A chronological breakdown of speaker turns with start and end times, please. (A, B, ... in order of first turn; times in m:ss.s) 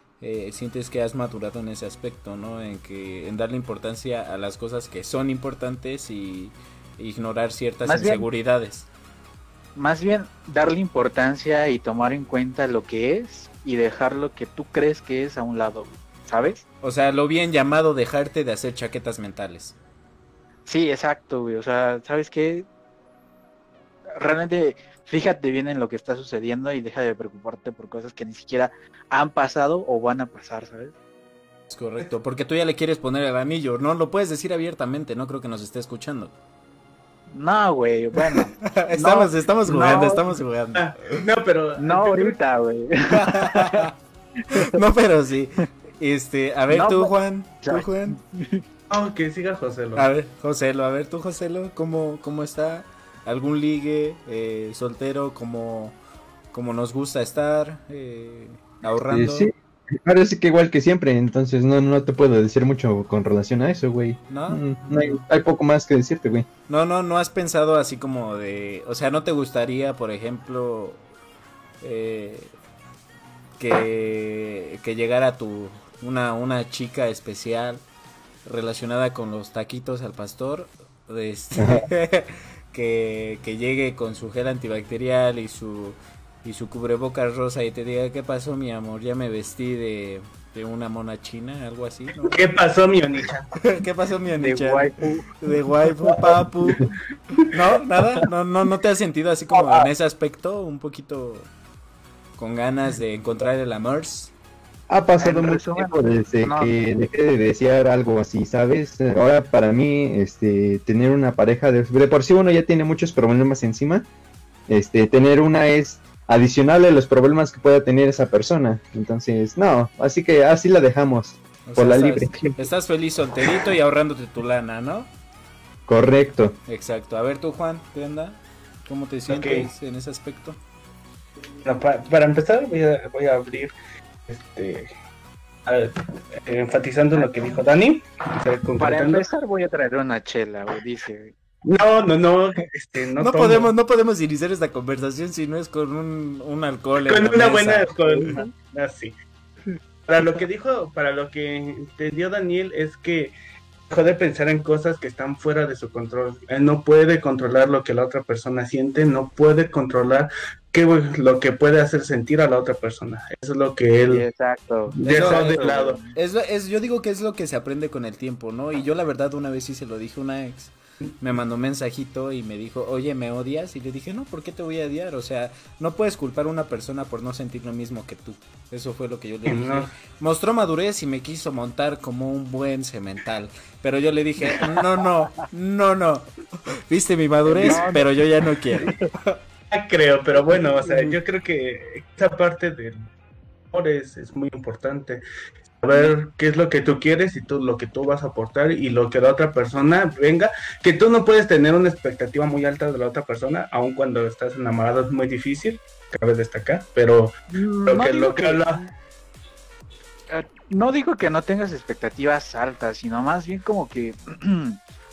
0:00.2-0:08.9 A
0:07.8-0:08.2 B
0:09.8-0:16.6 B
0:16.8-0:19.8 A
0:20.7-0:22.7 B
0:24.2-0:31.0 B
0:31.7-0:36.3 A
0:37.3-0:40.3 B
0:38.2-0:41.2 A
0:40.8-0:42.4 C
0:41.8-0:43.9 B
0:43.1-0:43.9 A
0:44.4-0:44.8 B
0:44.5-0:48.2 A
0:46.7-0:48.6 B
0:48.9-0:50.1 C
0:50.0-0:56.0 A
0:56.5-0:59.5 A
0:59.1-1:06.5 D
1:04.3-1:05.2 A
1:06.7-1:11.0 A
1:11.8-1:12.5 A
1:13.6-1:17.8 A
1:18.4-1:32.4 A
1:21.6-1:21.9 D
1:32.3-1:33.5 C
1:33.6-1:36.8 A
1:34.4-1:35.3 B
1:36.0-1:36.4 B
1:37.5-1:41.5 A
1:42.4-1:44.3 A
1:44.9-1:54.1 D
1:45.2-1:46.7 B
1:54.7-2:02.6 D
2:01.7-2:05.1 A
2:05.9-2:06.6 D
2:06.7-2:10.6 A
2:09.3-2:09.7 C
2:11.6-2:13.7 C
2:14.3-2:14.9 C
2:15.7-2:19.2 C
2:17.2-2:17.6 B
2:18.8-2:21.3 B
2:21.6-2:23.7 C
2:23.2-2:28.3 A
2:27.0-2:29.2 C
2:28.0-2:28.5 B
2:30.1-2:33.3 C
2:33.9-2:44.3 C
2:44.1-2:46.1 B
2:45.0-2:46.0 C
2:45.1-2:45.6 A
2:46.2-3:06.3 A
2:59.5-2:59.9 C
3:04.5-3:05.4 B
3:06.9-3:09.4 A
3:07.5-3:08.1 B
3:08.8-3:09.1 B
3:09.7-3:13.0 C
3:10.5-3:11.1 B
3:13.7-3:15.2 C
3:15.8-3:27.3 C
3:27.5-3:28.7 B
3:27.8-3:28.9 C
3:30.3-3:34.8 B